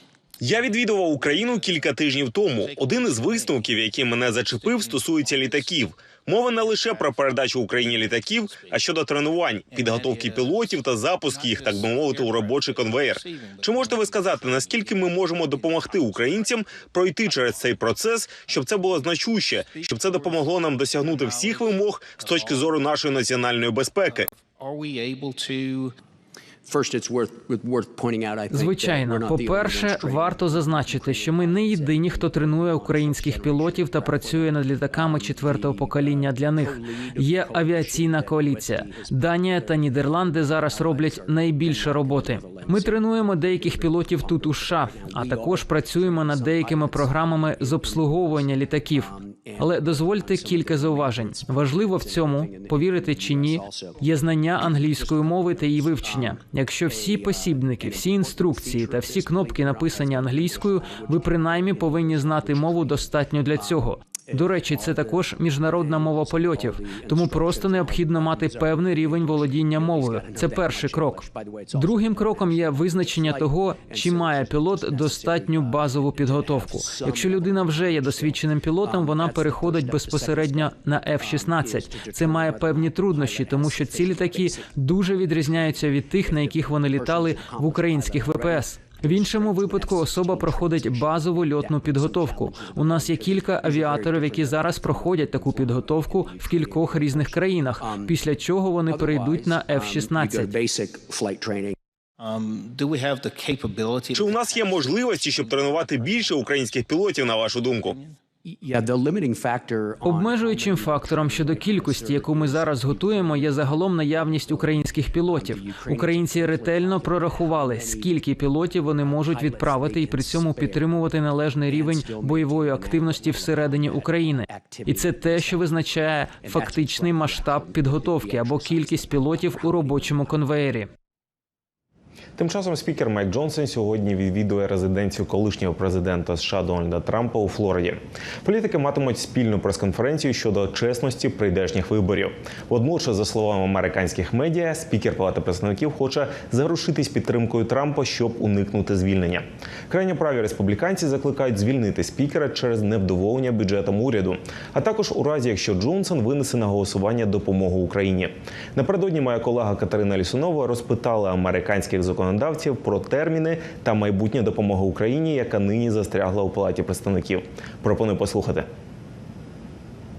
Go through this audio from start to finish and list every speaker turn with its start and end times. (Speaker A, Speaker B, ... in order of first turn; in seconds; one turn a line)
Speaker A: 0.4-24.3
Speaker B: 2.6-3.6
Speaker B: 4.6-5.0
Speaker B: 9.7-10.7
Speaker B: 11.3-14.9
Speaker B: 19.8-20.4
Speaker B: 21.1-22.6
Speaker B: 24.6-25.9
Speaker C: 26.6-84.7
Speaker D: 28.5-100.5
Speaker C: 85.5-98.1
Speaker C: 98.9-101.8
Speaker B: 102.2-104.3
Speaker A: 104.1-108.0
Speaker C: 108.5-118.3
Speaker D: 110.0-130.9
Speaker C: 119.0-121.0
Speaker C: 121.7-125.7
Speaker C: 126.3-130.2
Speaker A: 132.4-168.7